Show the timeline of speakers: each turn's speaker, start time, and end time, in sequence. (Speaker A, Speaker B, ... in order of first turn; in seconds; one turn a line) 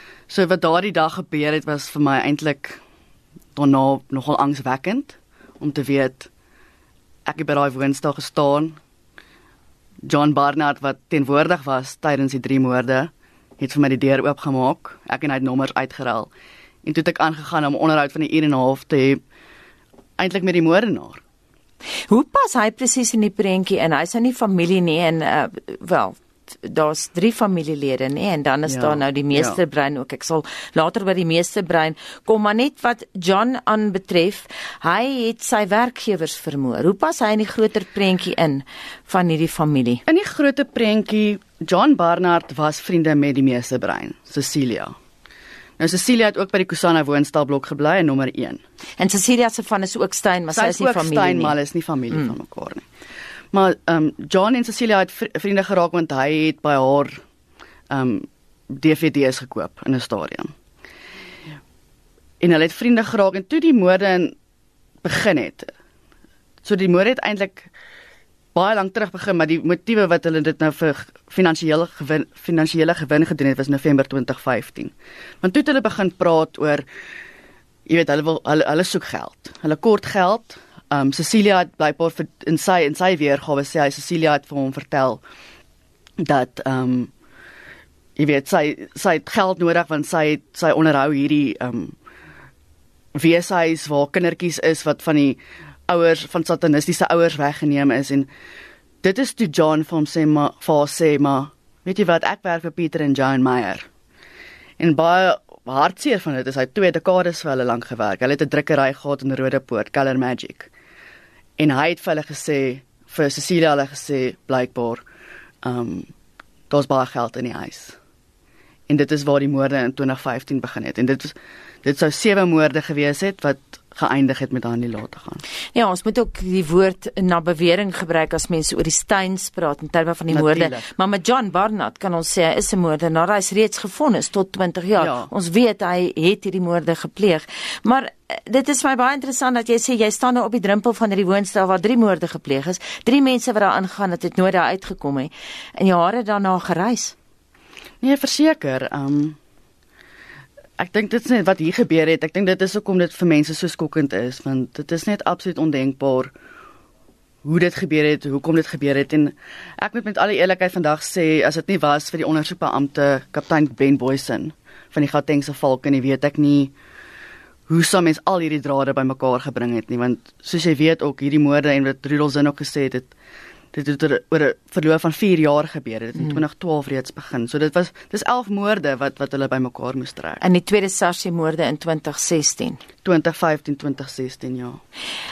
Speaker A: 0.3-2.8
Speaker A: 3.5-6.3
Speaker A: 7.2-8.8
Speaker A: 10.1-16.3
Speaker A: 16.8-19.2
Speaker A: 20.2-21.2
Speaker B: 22.1-40.0
Speaker A: 28.6-29.6
Speaker A: 40.1-44.9
Speaker A: 45.8-48.6
Speaker B: 49.0-51.5
Speaker A: 50.5-52.8
Speaker A: 53.5-57.2
Speaker A: 57.9-60.5
Speaker A: 62.4-64.3
Speaker A: 65.0-65.7
Speaker A: 66.6-67.7
Speaker A: 68.5-76.8
Speaker A: 77.8-85.2
Speaker A: 86.2-87.1
Speaker A: 88.2-91.9
Speaker A: 93.1-98.3
Speaker A: 99.0-103.9
Speaker A: 104.8-110.7
Speaker A: 111.6-115.0
Speaker A: 115.6-116.1
Speaker A: 116.7-118.0
Speaker A: 118.9-125.4
Speaker B: 125.7-147.1
Speaker A: 130.3-130.8
Speaker A: 135.0-135.3
Speaker A: 148.0-149.4
Speaker A: 150.8-156.3
Speaker A: 157.4-166.7
Speaker A: 167.7-173.1
Speaker A: 173.7-180.4
Speaker B: 180.4-182.8
Speaker A: 183.0-184.8